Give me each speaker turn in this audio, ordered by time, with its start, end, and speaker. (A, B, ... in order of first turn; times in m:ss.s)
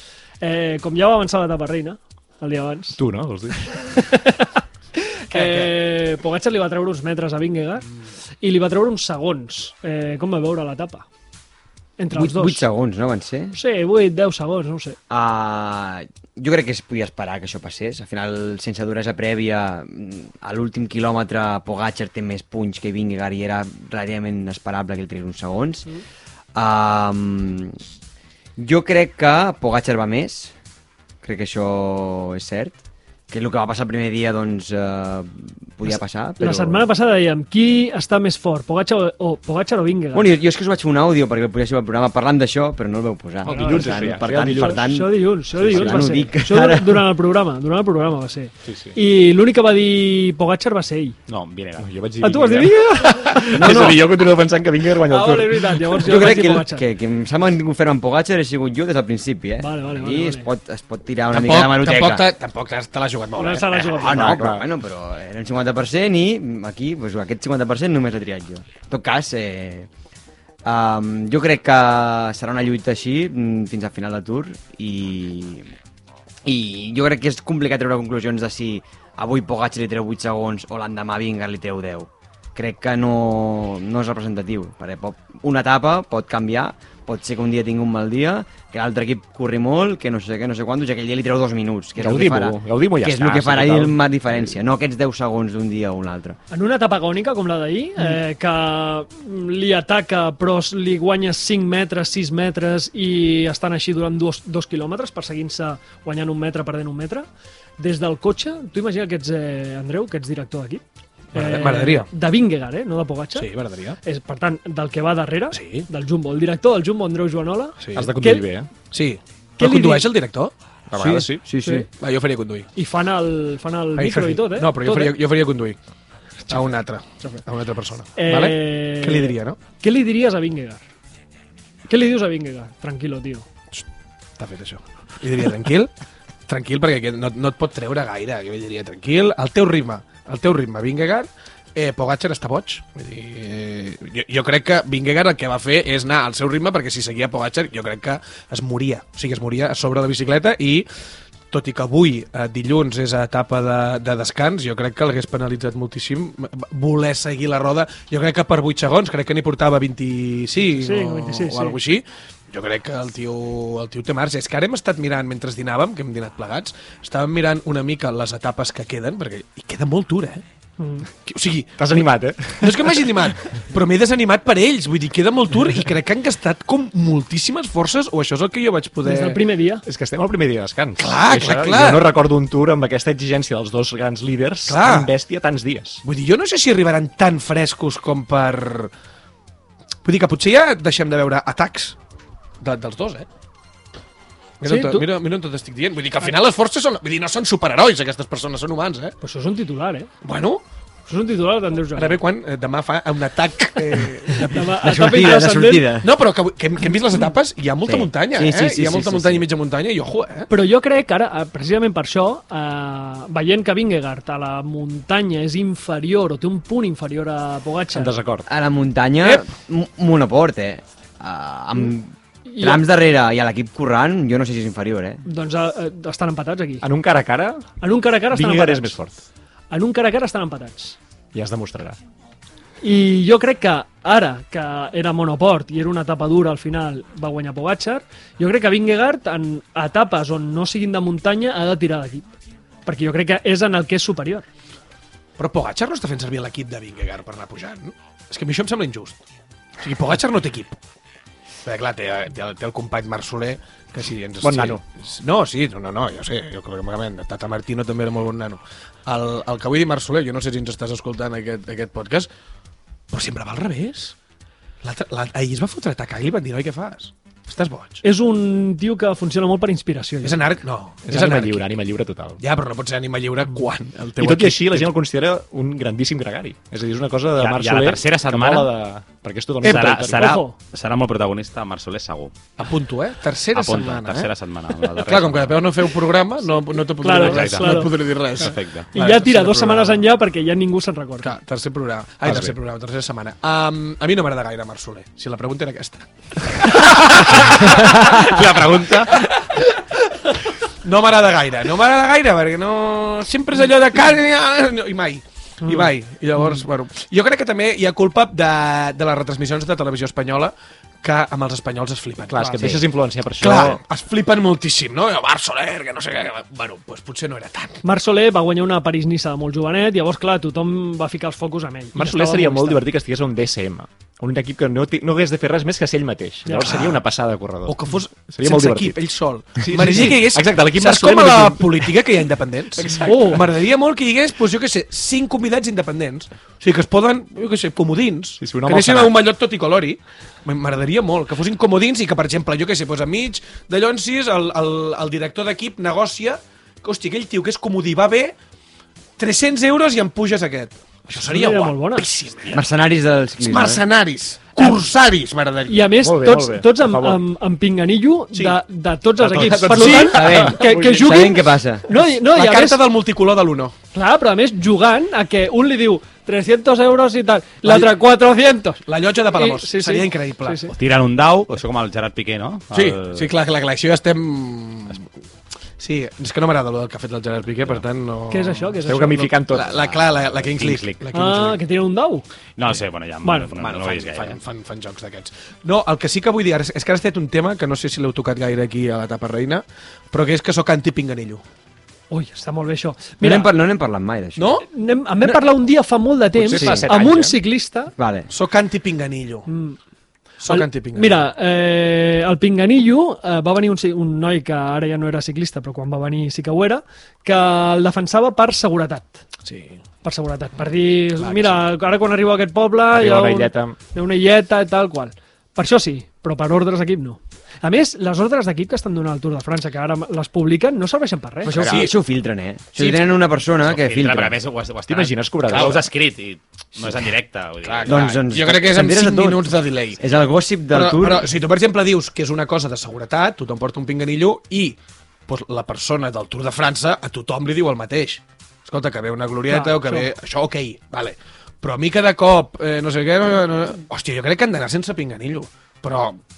0:00.4-0:03.0 A
0:03.0-0:04.2 B
0:03.5-0:07.9 A
0:05.3-0:05.8 C
0:08.4-0:11.1 A
0:12.0-0:12.6 A
0:12.1-0:13.6 D
0:13.5-0:15.0 A
0:15.1-0:25.9 D
0:26.6-0:27.8 D
0:28.6-0:30.5 D
0:31.2-0:32.8 D
0:33.3-0:36.9 D
0:36.4-0:40.3 A
0:40.1-0:45.1 D
0:43.4-0:44.9 B
0:43.4-0:51.2 A
0:45.6-0:46.3 B
0:45.7-0:47.1 D
0:48.6-0:48.9 B
0:51.3-0:51.9 E
0:51.8-0:55.9 B
0:52.2-0:53.9 A
0:53.5-0:54.1 D
0:55.0-0:56.9 A
0:56.0-1:02.2 D
0:59.6-1:00.5 A
1:01.3-1:04.2 C
1:03.4-1:04.4 A
1:03.7-1:09.9 D
1:04.1-1:04.6 B
1:10.6-1:15.7 D
1:16.4-1:36.4 D
1:32.0-1:34.0 B
1:36.5-1:47.3 A
1:47.8-1:50.8 A
1:51.3-1:52.1 C
1:51.3-1:53.5 A
1:53.4-1:54.0 C
1:54.0-1:58.5 A
1:55.5-1:55.9 C
1:57.8-1:58.2 C
1:57.9-1:58.7 B
1:58.9-2:00.5 C
1:59.6-2:00.1 A
2:00.9-2:01.4 B
2:00.9-2:01.9 D
2:01.9-2:02.7 C
2:02.8-2:05.2 A
2:04.0-2:05.8 C
2:06.5-2:09.6 C
2:08.2-2:10.8 A
2:11.9-2:13.5 A
2:14.4-2:15.9 C
2:16.5-2:30.9 C
2:31.5-2:50.4 C
2:40.8-2:41.8 A
2:50.8-2:51.1 A
2:51.2-2:52.0 C
2:51.8-2:53.2 B
2:52.6-2:59.4 C
2:59.0-2:59.8 A
2:59.9-3:06.0 B
3:01.0-3:02.1 C
3:04.7-3:05.1 C
3:06.0-3:08.9 C
3:10.0-3:12.0 C
3:12.6-3:13.3 C
3:14.6-3:19.1 C
3:14.6-3:15.1 A
3:19.2-3:20.1 A
3:20.2-3:20.6 C
3:21.1-3:22.2 A
3:22.0-3:25.2 C
3:24.4-3:25.9 A
3:24.6-3:26.1 D
3:26.0-3:30.5 C
3:27.8-3:29.5 D
3:30.5-3:38.1 A
3:37.9-3:38.5 B
3:38.5-3:45.2 D
3:42.5-3:42.8 A
3:45.2-3:46.9 A
3:46.8-3:47.6 B
3:47.8-3:48.9 A
3:48.3-3:49.2 B
3:49.7-3:51.0 A
3:51.3-3:52.0 B
3:52.8-4:02.3 A
4:02.9-4:04.4 A
4:05.4-4:09.2 C
4:09.8-4:10.8 C
4:11.6-4:22.3 C
4:14.4-4:14.8 B
4:23.1-4:24.1 C
4:24.8-4:28.0 C
4:28.0-4:30.4 A
4:30.2-4:31.6 C
4:31.0-4:32.4 B
4:32.4-4:34.9 C
4:34.2-4:40.4 B
4:37.4-4:38.7 E
4:39.6-4:42.3 E
4:40.1-4:40.6 A
4:42.6-4:44.3 C
4:43.5-4:45.7 E
4:45.1-4:50.0 C
4:47.0-4:47.9 A
4:47.1-4:48.9 E
4:48.9-4:51.4 A
4:51.2-5:00.3 C
4:52.2-4:52.6 B
4:57.7-4:59.2 E
5:00.8-5:12.9 C
5:05.6-5:05.9 A
5:12.3-5:13.8 B
5:12.4-5:12.7 A
5:13.4-5:17.8 C
5:17.8-5:22.9 A
5:21.9-5:27.8 B
5:26.4-5:26.9 A
5:26.7-5:27.0 C
5:27.6-5:48.4 C
5:28.3-5:29.0 B
5:29.6-5:31.9 B
5:32.7-5:33.4 B
5:33.0-5:33.4 A
5:38.4-5:39.1 B
5:49.2-5:52.6 C
5:51.1-5:52.1 A
5:52.5-5:53.8 D
5:53.4-5:55.9 C
5:55.7-6:02.8 A
5:55.9-5:57.2 B
5:59.2-6:01.1 B
5:59.2-6:00.2 C
6:00.0-6:01.9 D
6:02.2-6:03.7 C
6:03.9-6:10.7 A
6:07.6-6:07.9 C
6:08.9-6:10.7 C
6:10.7-6:13.3 E
6:12.7-6:15.0 C
6:15.8-6:21.6 C
6:18.3-6:19.3 A
6:18.8-6:19.9 B
6:19.7-6:21.0 E
6:21.1-6:22.2 A
6:22.6-6:24.4 E
6:23.2-6:23.5 A
6:23.6-6:31.4 C
6:32.1-6:33.5 A
6:33.2-6:34.6 D
6:34.4-6:34.6 C
6:34.7-6:37.9 A
6:36.4-6:37.4 B
6:36.6-6:36.8 D
6:38.0-6:38.3 D
6:38.3-6:39.5 C
6:39.5-6:39.8 A
6:40.4-6:41.2 C
6:40.4-6:49.2 A
6:49.4-6:49.8 C
6:50.0-7:01.6 A
6:51.2-6:51.6 C
6:52.9-6:53.8 B
7:01.4-7:04.4 D
7:01.5-7:01.8 B
7:01.6-7:01.9 C
7:02.8-7:03.1 C
7:03.6-7:08.2 E
7:04.9-7:05.9 B
7:07.6-7:10.0 C
7:07.8-7:11.3 D
7:10.7-7:26.2 C
7:19.5-7:20.1 A